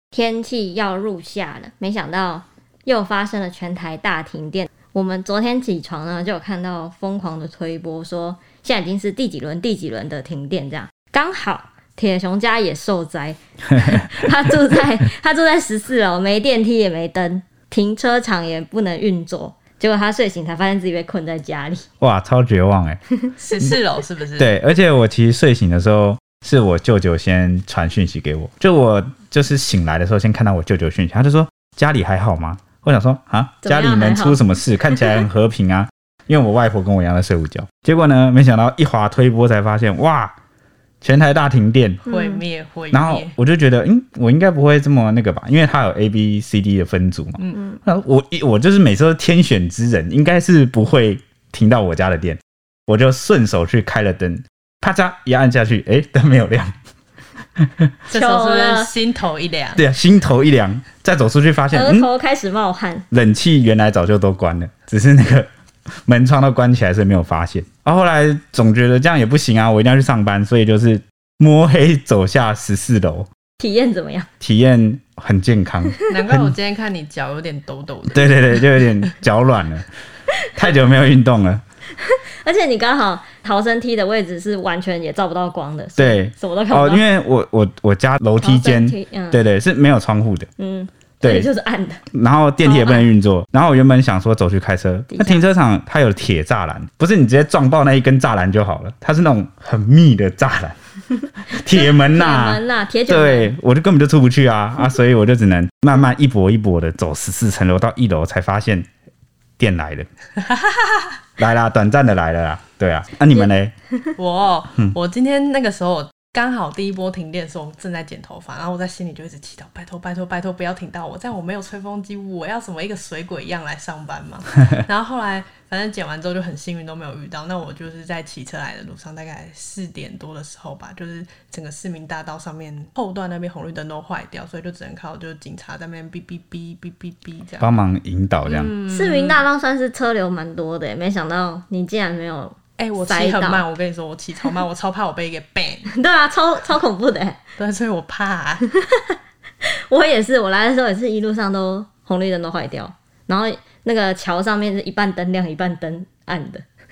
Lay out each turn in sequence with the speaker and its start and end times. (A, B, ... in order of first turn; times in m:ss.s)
0:00.1-0:21.8 A
0:22.0-0:23.0 B
0:23.4-0:24.6 C
0:24.4-0:40.4 B
0:33.6-0:35.2 A
0:41.0-0:42.0 B
0:42.0-0:43.3 C
0:42.1-0:42.4 A
0:42.9-0:56.7 B
0:57.6-0:57.9 B
0:58.1-0:59.8 C
0:58.1-0:58.9 A
0:59.8-1:02.1 B
1:01.7-1:03.0 A
1:03.1-1:05.5 B
1:06.1-1:13.3 B
1:13.6-1:14.3 A
1:14.4-1:16.5 B
1:16.1-1:18.9 C
1:18.1-1:19.9 B
1:20.5-1:21.6 B
1:22.0-1:27.0 A
1:26.0-1:30.5 B
1:28.4-1:29.4 A
1:30.6-1:32.0 A
1:31.2-1:31.5 B
1:32.1-1:40.8 B
1:32.6-1:33.1 A
1:35.1-1:35.4 A
1:41.5-1:48.9 B
1:41.7-1:43.5 A
1:49.6-1:50.1 B
1:50.5-1:51.1 C
1:51.4-1:53.7 B
1:54.2-2:17.7 C
2:17.6-2:18.7 B
2:18.4-2:19.4 C
2:18.8-2:23.6 A
2:22.8-2:25.9 C
2:25.9-2:27.4 A
2:27.6-2:28.6 C
2:28.7-2:36.6 A